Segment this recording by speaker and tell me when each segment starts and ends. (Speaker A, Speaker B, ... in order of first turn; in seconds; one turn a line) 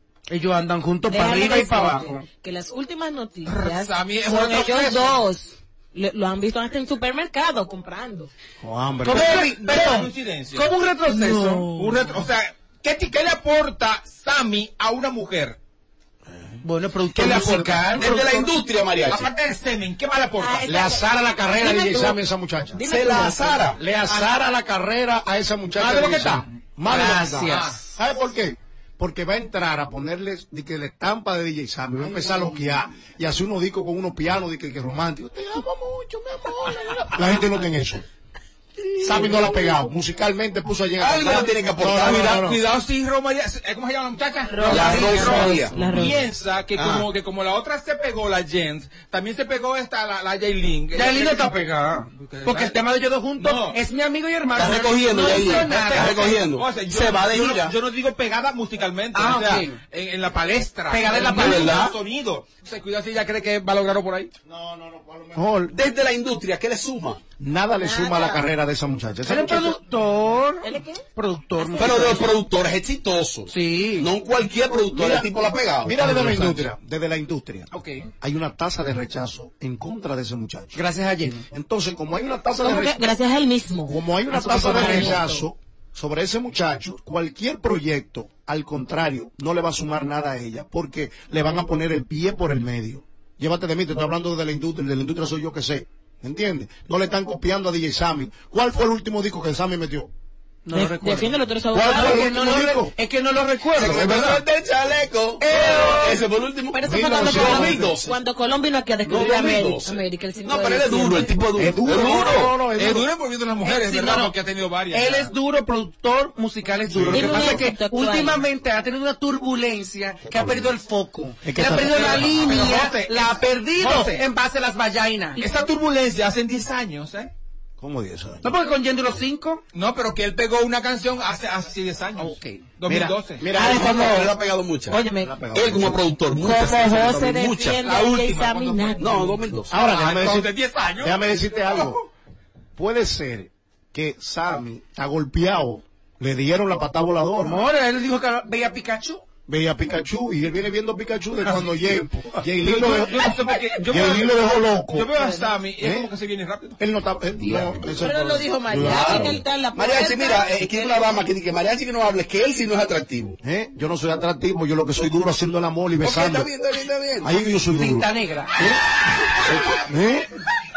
Speaker A: 0.3-2.2
Speaker B: 1.1-8.3
Speaker C: 3.5-5.2
Speaker D: 8.6-9.5
Speaker A: 9.0-11.7
Speaker C: 9.1-15.6
Speaker B: 11.1-12.2
Speaker D: 16.3-16.6
Speaker A: 16.6-18.3
Speaker E: 17.1-19.3
Speaker D: 17.3-17.8
Speaker C: 18.0-18.5
Speaker C: 19.0-20.7
Speaker B: 20.4-22.2
Speaker D: 20.6-23.2
Speaker B: 22.7-23.6
Speaker E: 22.8-23.8
Speaker D: 23.8-38.0
Speaker C: 25.8-26.4
Speaker A: 26.0-26.2
Speaker A: 26.8-27.8
Speaker C: 27.4-27.8
Speaker D: 39.0-42.6
Speaker E: 41.0-42.4
Speaker C: 41.9-51.5
Speaker B: 44.5-46.2
Speaker E: 44.6-45.7
Speaker E: 46.8-47.0
Speaker A: 50.9-56.3
Speaker C: 52.2-52.8
Speaker C: 53.4-53.8
Speaker E: 54.5-57.7
Speaker C: 55.1-64.3
Speaker A: 59.1-59.8
Speaker A: 60.9-61.9
Speaker E: 61.2-61.9
Speaker D: 64.5-65.7
Speaker E: 65.7-67.2
Speaker D: 67.4-69.8
Speaker B: 67.8-68.4
Speaker A: 69.2-72.2
Speaker B: 70.6-72.3
Speaker E: 71.8-76.6
Speaker A: 73.5-74.1
Speaker D: 74.9-75.3
Speaker D: 75.8-77.7
Speaker D: 78.2-80.8
Speaker A: 80.7-81.4
Speaker D: 81.5-83.1
Speaker B: 82.6-85.4
Speaker D: 83.9-100.1
Speaker A: 100.7-104.4
Speaker B: 100.7-102.3
Speaker D: 101.7-102.9
Speaker E: 103.8-108.2
Speaker A: 105.4-106.2
Speaker B: 106.7-111.5
Speaker D: 106.8-107.9
Speaker E: 109.0-112.5
Speaker D: 111.5-113.0
Speaker C: 112.7-115.3
Speaker A: 113.6-114.3
Speaker A: 114.9-125.4
Speaker D: 116.9-117.3
Speaker B: 117.1-118.4
Speaker D: 121.4-122.6
Speaker C: 121.7-124.2
Speaker C: 125.4-127.3
Speaker D: 127.8-128.4
Speaker A: 128.4-129.6
Speaker C: 129.7-133.5
Speaker A: 132.2-132.7
Speaker D: 132.8-134.0
Speaker B: 133.5-134.3
Speaker E: 133.6-135.0
Speaker B: 134.9-135.4
Speaker D: 135.2-136.0
Speaker E: 135.5-137.8
Speaker B: 136.3-139.4
Speaker C: 137.8-139.1
Speaker E: 139.0-139.7
Speaker D: 139.7-142.0
Speaker C: 139.8-141.8
Speaker D: 142.8-147.6
Speaker A: 147.4-149.2
Speaker D: 149.5-155.2
Speaker C: 152.6-156.8
Speaker D: 155.8-156.1
Speaker D: 156.8-159.4
Speaker B: 157.9-161.0
Speaker E: 158.8-163.4
Speaker D: 163.4-166.5
Speaker E: 166.0-167.3
Speaker D: 167.2-168.8
Speaker A: 167.6-168.8
Speaker D: 169.4-170.2